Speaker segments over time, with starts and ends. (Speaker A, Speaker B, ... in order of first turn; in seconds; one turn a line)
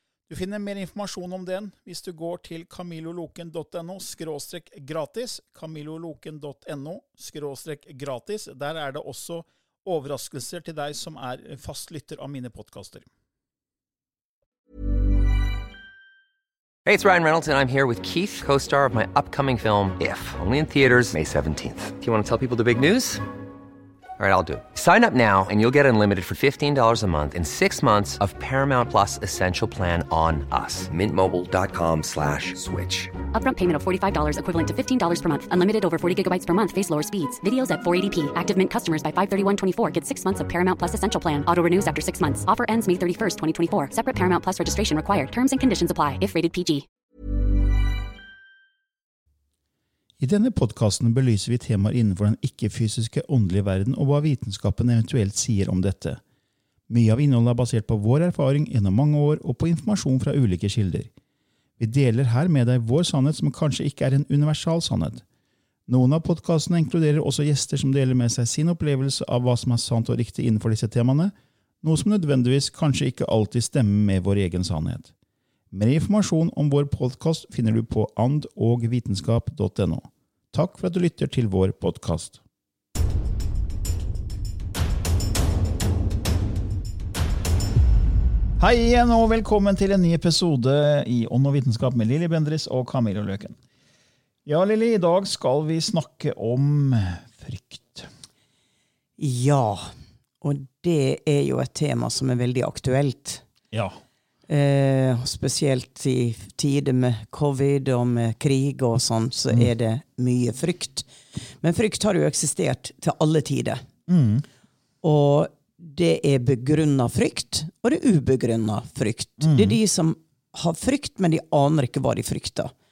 Speaker A: 0.3-13.1
Speaker B: 16.9-23.2
Speaker B: 24.2-33.1
Speaker C: 33.3-46.9
Speaker A: 50.2-56.2
Speaker A: 56.9-61.1
Speaker A: 61.8-65.2
Speaker A: 65.9-75.1
Speaker A: 75.7-82.4
Speaker A: 88.6-93.6
Speaker A: 94.5-98.1
Speaker D: 99.2-99.9
Speaker D: 100.4-103.4
Speaker A: 103.7-104.0
Speaker D: 104.5-113.8
Speaker A: 114.1-114.4
Speaker D: 115.0-122.7
Speaker A: 119.4-119.8